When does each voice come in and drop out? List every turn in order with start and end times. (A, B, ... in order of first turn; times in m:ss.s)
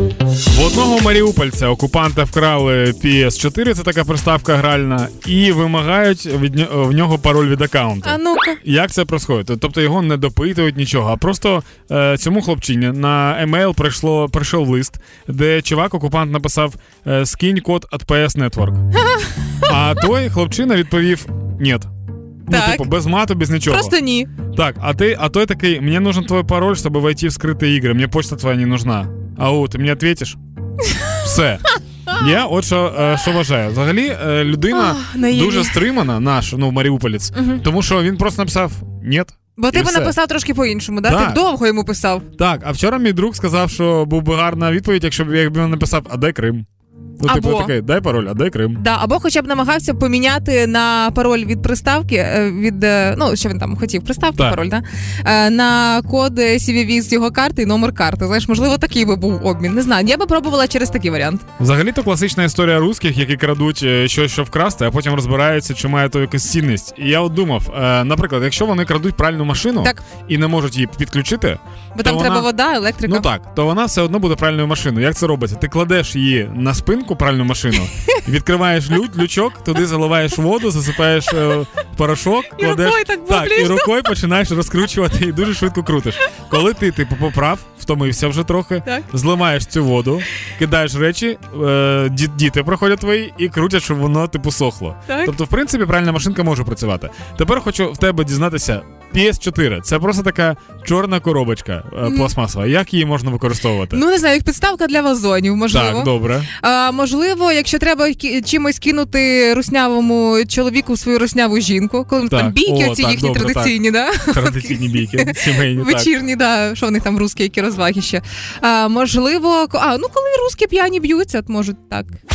0:00.5-0:18.8 A
0:08.0-0:08.6 B
0:19.6-0:21.9 A
0:22.5-0:24.0 A
0:22.5-0:22.9 B
0:23.6-0:24.3 B
0:24.4-0:30.4 A
0:31.2-0:40.2 A
0:34.7-0:35.8 B
0:37.4-0:37.6 B
0:39.6-0:42.3 B
0:41.0-0:41.4 A
0:42.4-0:46.6 A
0:47.2-0:48.8 A
0:47.2-0:47.7 B
0:48.8-1:01.4 B
1:01.6-1:12.5 A
1:12.0-1:13.3 B
1:13.0-1:44.0 A
1:22.6-1:24.0 B
1:35.1-1:35.3 B
1:42.0-1:42.3 B
1:43.9-2:02.1 B
1:45.7-1:46.5 A
1:52.3-1:56.1 A